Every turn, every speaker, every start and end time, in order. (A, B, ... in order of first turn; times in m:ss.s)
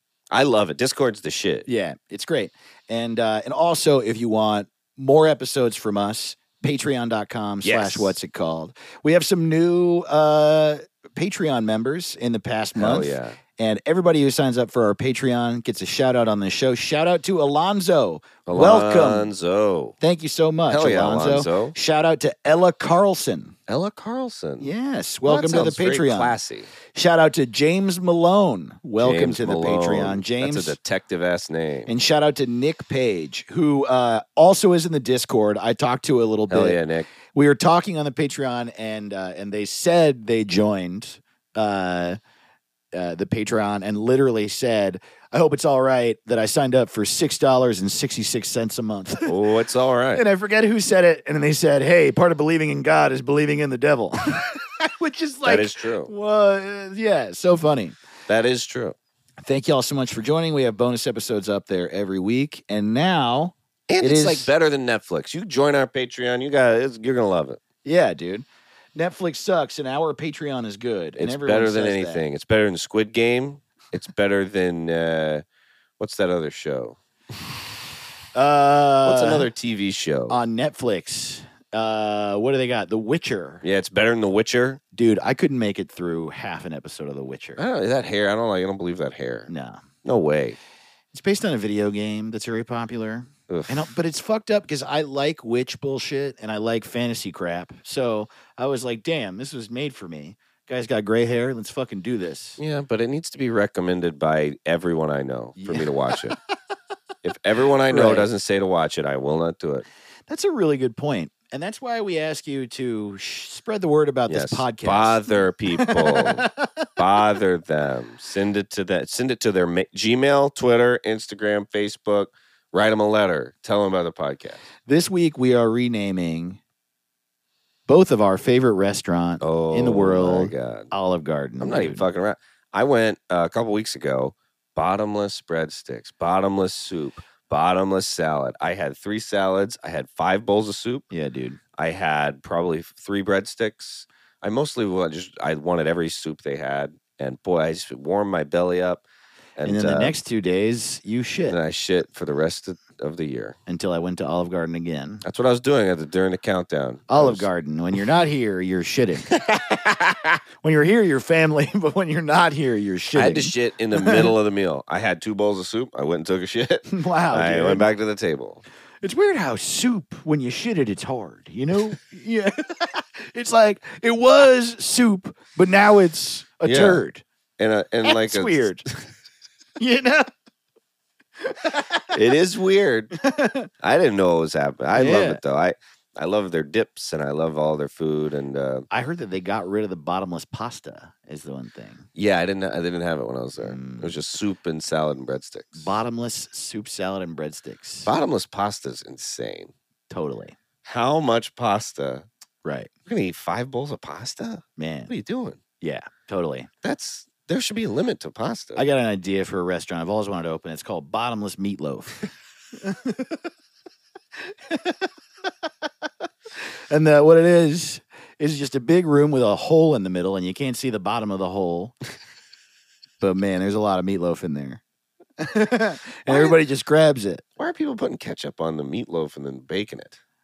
0:00.3-0:01.6 A
0:01.7-0:19.3 B
0:07.6-0:08.2 A
0:12.8-0:13.4 A
0:18.4-0:19.9 A
0:20.0-0:23.6 B
0:20.7-0:21.7 A
0:23.7-0:24.7 A
0:24.6-0:26.3 B
0:25.2-0:26.7 A
0:26.9-0:30.8 B
0:29.0-0:31.9 A
0:31.9-0:36.8 B
0:36.5-0:37.1 A
0:37.3-0:42.2 B
0:42.9-0:49.3 B
0:49.2-0:50.2 A
0:50.1-0:58.0 B
0:55.4-0:56.1 A
0:58.3-0:59.0 A
0:59.4-1:04.5 B
1:03.9-1:07.6 A
1:07.8-1:12.2 B
1:11.2-1:15.4 A
1:16.0-1:17.0 A
1:18.3-1:19.5 B
1:19.0-1:20.4 A
1:20.3-1:23.6 B
1:23.6-1:24.8 A
1:24.9-1:27.6 B
1:27.6-1:29.5 A
1:29.5-1:29.8 B
1:30.0-1:30.6 A
1:31.1-1:42.6 B
1:33.5-1:33.9 A
1:42.6-1:46.3 A
1:45.6-1:46.3 B
1:47.2-1:49.8 A
1:47.9-1:48.3 B
1:50.3-1:56.8 B
1:54.3-1:56.4 A
1:57.0-2:04.6 A
2:04.8-2:06.6 B
2:07.9-2:12.0 B
2:09.4-2:10.9 A
2:11.6-2:21.0 A
2:21.1-2:21.6 B
2:21.8-2:29.0 A
2:29.6-2:30.2 A
2:29.6-2:31.6 B
2:31.4-2:33.6 A
2:33.7-2:35.2 B
2:35.2-2:37.4 A
2:37.1-2:39.3 B
2:39.3-2:40.4 A
2:40.6-2:44.3 B
2:43.1-2:48.6 A
2:46.9-2:47.9 B
2:49.0-2:57.2 B
2:56.6-2:57.0 A
2:57.6-2:59.0 A
2:58.0-2:58.8 B
2:59.8-3:00.3 B
3:01.4-3:02.1 B
3:02.1-3:03.1 A
3:03.2-3:03.7 B
3:03.8-3:08.9 A
3:04.9-3:05.4 B
3:08.9-3:12.1 B
3:12.1-3:15.8 A
3:13.6-3:14.2 B
3:15.8-3:18.1 B
3:18.0-3:19.7 A
3:20.1-3:20.6 B
3:20.8-3:22.2 A
3:22.6-3:22.9 B
3:23.1-3:25.6 A
3:24.8-3:25.1 B
3:25.8-3:26.7 B
3:26.8-3:28.8 A
3:28.8-3:32.3 B
3:32.8-3:33.4 B
3:34.4-3:35.1 B
3:36.9-3:42.0 B
3:43.2-3:44.8 B
3:45.4-3:47.4 B
3:46.3-3:46.6 A
3:47.6-3:50.2 A